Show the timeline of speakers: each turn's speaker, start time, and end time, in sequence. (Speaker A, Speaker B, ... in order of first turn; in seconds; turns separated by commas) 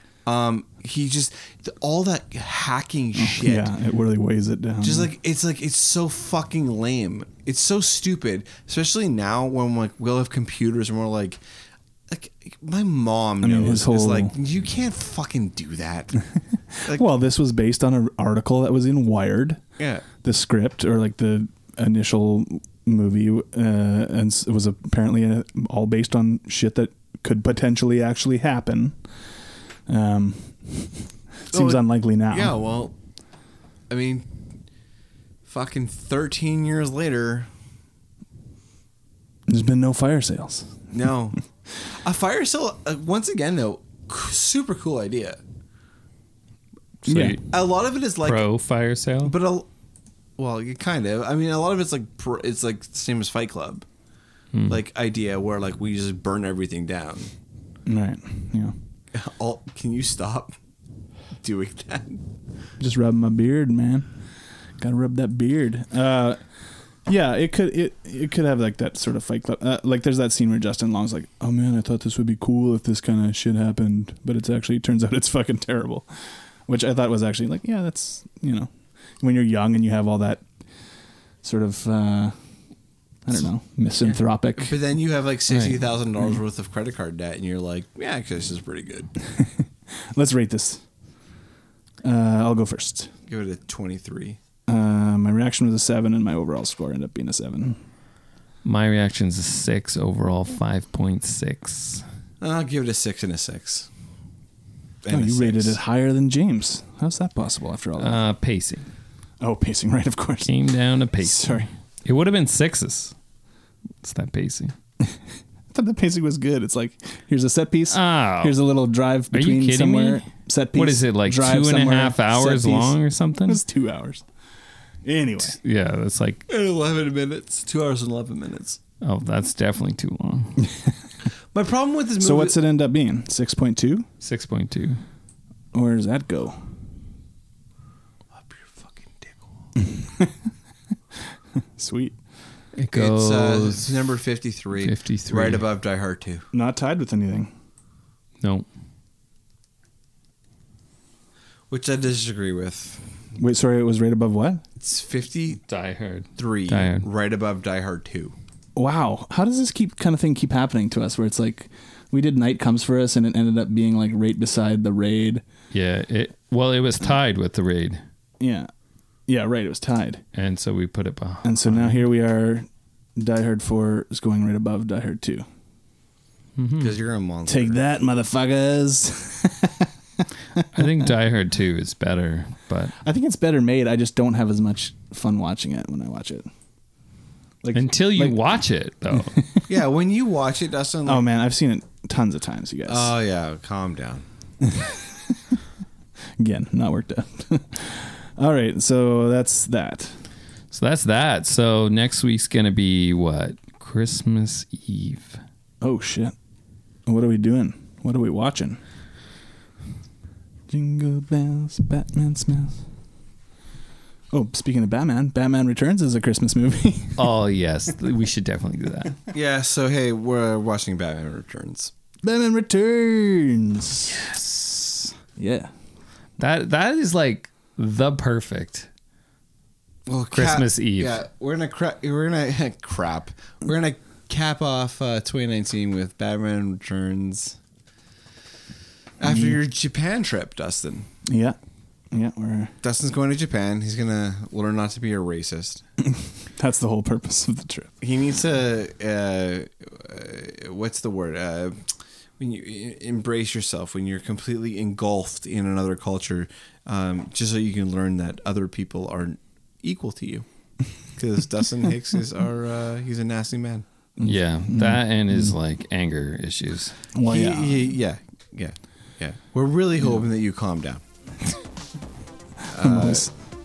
Speaker A: 0.2-3.7, Speaker B: 3.1-5.1, Speaker A: 4.8-11.4, Speaker A: 12.1-16.2, Speaker B: 13.4-14.3, Speaker B: 16.7-19.6, Speaker A: 19.8-20.0, Speaker B: 20.2-29.0, Speaker B: 29.9-32.5, Speaker A: 31.5-32.9, Speaker A: 33.9-34.3, Speaker A: 35.5-37.5, Speaker B: 39.5-40.8, Speaker A: 40.9-41.4, Speaker A: 41.9-45.4, Speaker C: 47.0-47.4, Speaker B: 47.1-47.4, Speaker A: 47.4-48.4, Speaker C: 48.2-49.3, Speaker A: 49.2-49.7, Speaker A: 50.4-53.8, Speaker C: 54.5-54.8, Speaker A: 54.7-57.3, Speaker B: 57.9-58.7, Speaker A: 59.1-60.5, Speaker A: 61.4-62.2, Speaker B: 62.8-64.1, Speaker B: 64.8-66.4, Speaker B: 67.0-76.1, Speaker B: 76.7-80.4, Speaker B: 81.4-82.3, Speaker B: 83.2-84.8, Speaker A: 84.0-89.1, Speaker B: 85.5-85.8, Speaker B: 89.3-90.8, Speaker B: 92.0-93.1, Speaker A: 93.3-94.4, Speaker B: 94.7-97.8, Speaker C: 98.6-102.0, Speaker A: 102.4-103.9, Speaker A: 105.0-105.8, Speaker B: 105.1-108.2, Speaker C: 108.0-108.9, Speaker B: 109.4-110.6, Speaker C: 110.5-113.1, Speaker B: 111.2-111.7, Speaker C: 114.0-114.7, Speaker B: 115.7-124.2, Speaker C: 117.9-118.6, Speaker C: 119.3-123.6, Speaker B: 125.0-125.6, Speaker C: 125.6-126.4, Speaker A: 126.5-128.8, Speaker C: 129.0-130.6, Speaker A: 131.5-132.6, Speaker B: 132.2-134.1, Speaker C: 134.2-135.0, Speaker B: 135.7-136.6, Speaker A: 138.3-139.4, Speaker B: 139.8-140.3, Speaker B: 141.8-142.1, Speaker C: 142.8-143.9, Speaker A: 142.9-146.4, Speaker C: 144.8-145.6, Speaker B: 146.5-147.5, Speaker C: 148.4-148.7, Speaker A: 151.7-153.0, Speaker B: 153.4-154.6, Speaker A: 154.8-155.6, Speaker C: 155.7-157.1, Speaker A: 156.3-158.3, Speaker B: 158.8-165.4, Speaker C: 165.7-168.0, Speaker B: 168.4-168.7, Speaker B: 169.3-170.2, Speaker C: 170.3-172.0, Speaker B: 171.4-175.4, Speaker C: 176.6-176.9, Speaker A: 176.8-177.8, Speaker B: 177.5-179.9, Speaker C: 180.7-182.9, Speaker B: 183.0-186.5, Speaker B: 187.6-188.5, Speaker C: 187.7-189.4, Speaker B: 189.1-189.7, Speaker A: 189.7-191.2, Speaker B: 191.1-193.1, Speaker A: 192.9-194.2, Speaker B: 194.7-195.3, Speaker B: 196.4-200.1, Speaker C: 200.7-205.4, Speaker B: 205.8-206.3, Speaker B: 207.1-208.8, Speaker B: 210.7-212.8, Speaker B: 214.3-217.2, Speaker C: 217.2-219.2, Speaker A: 219.3-221.9, Speaker B: 222.2-224.2, Speaker B: 225.4-225.7, Speaker C: 226.4-228.9, Speaker A: 230.1-237.6, Speaker C: 230.3-231.2, Speaker A: 239.2-241.1, Speaker B: 239.2-239.6, Speaker B: 241.3-241.6, Speaker B: 242.1-242.7, Speaker A: 242.8-245.8, Speaker B: 246.1-247.9, Speaker A: 248.0-251.8, Speaker A: 252.4-260.4, Speaker A: 261.1-263.8, Speaker B: 264.2-265.5, Speaker C: 264.2-266.9, Speaker B: 267.1-267.9, Speaker A: 267.3-271.0, Speaker B: 272.7-273.3, Speaker A: 272.7-273.3